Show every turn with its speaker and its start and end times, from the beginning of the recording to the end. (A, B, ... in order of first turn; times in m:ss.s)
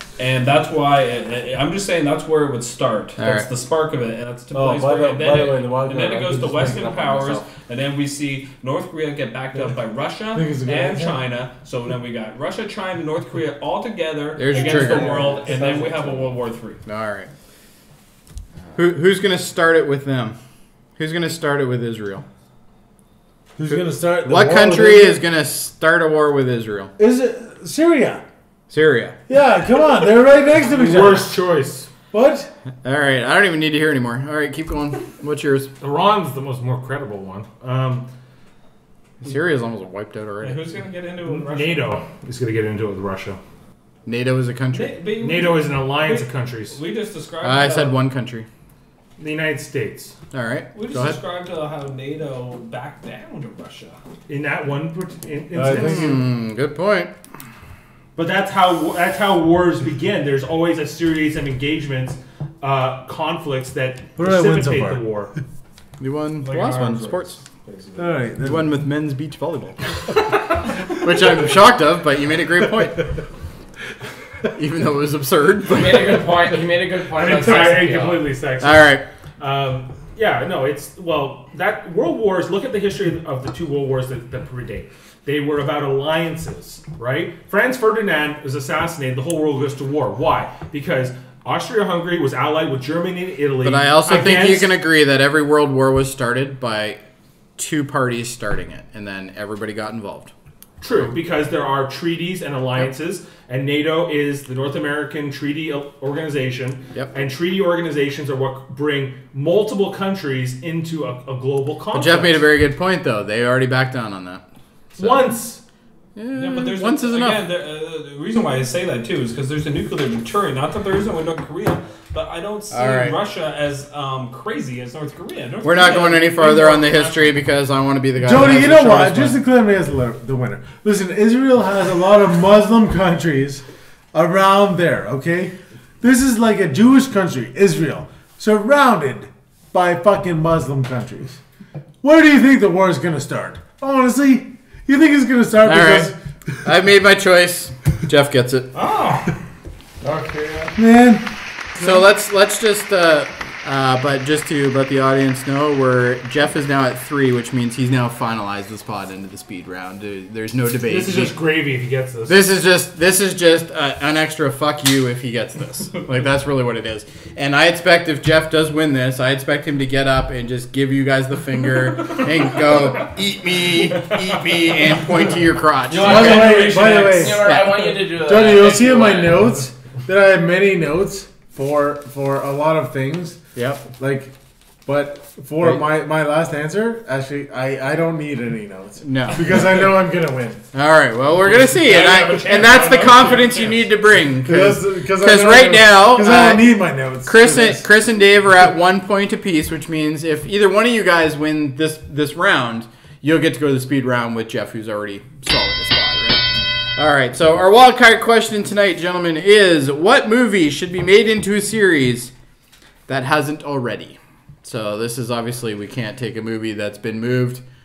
0:00.2-0:16.8 A
0:03.2-0:03.5 B
0:04.5-0:07.5 C
0:10.3-0:11.2 C
0:14.4-0:15.3 B
0:14.5-0:16.2 C
0:16.8-0:17.3 B
0:18.7-0:20.4 B
0:21.0-0:22.2 B
0:23.6-0:25.2 C
0:23.7-0:26.9 B
0:27.0-0:28.2 C
0:28.7-0:29.2 B
0:29.3-0:31.3 C
0:30.6-0:31.9 D
0:32.1-0:32.5 C
0:32.8-0:35.7 B
0:35.8-0:38.1 D
0:39.2-0:40.6 B
0:40.4-0:42.0 A
0:41.3-0:43.4 D
0:44.0-0:45.0 B
0:44.7-0:48.0 A
0:45.2-0:46.8 D
0:47.4-0:48.5 B
0:49.2-0:50.1 D
0:50.3-0:51.2 B
0:50.7-0:54.0 A
0:54.3-0:56.2 D
0:55.5-0:56.2 C
0:55.7-0:57.1 B
0:58.2-1:05.3 D
1:04.2-1:05.0 C
1:06.0-1:07.4 B
1:06.4-1:08.2 A
1:08.0-1:08.8 C
1:08.4-1:09.8 B
1:10.9-1:13.1 B
1:14.5-1:16.4 B
1:15.7-1:18.3 E
1:17.1-1:34.7 D
1:18.6-1:19.0 B
1:33.6-1:37.0 B
1:37.6-1:40.3 B
1:40.8-1:52.4 D
1:51.9-1:54.4 B
1:54.9-1:55.6 D
1:55.0-1:55.3 B
1:56.2-1:57.4 B
1:56.3-2:07.3 A
2:02.7-2:03.2 B
2:05.6-2:09.4 B
2:08.2-2:21.4 C
2:22.0-2:26.2 C
2:25.6-2:26.1 B
2:26.6-2:28.7 B
2:28.7-2:29.3 A
2:30.0-2:32.0 C
2:31.8-2:41.3 B
2:40.9-2:42.4 D
2:42.3-2:56.5 B
2:52.0-2:53.1 A
2:53.9-2:55.3 A
2:55.9-2:57.5 A
2:55.9-2:59.5 E
2:56.0-3:03.4 C
2:57.4-2:58.0 B
3:03.5-3:03.8 B
3:03.9-3:04.3 C
3:04.8-3:10.6 C
3:09.0-3:09.8 B
3:10.7-3:16.7 B
3:11.5-3:13.9 A
3:14.4-3:17.9 C
3:17.2-3:32.3 B
3:33.1-3:37.6 B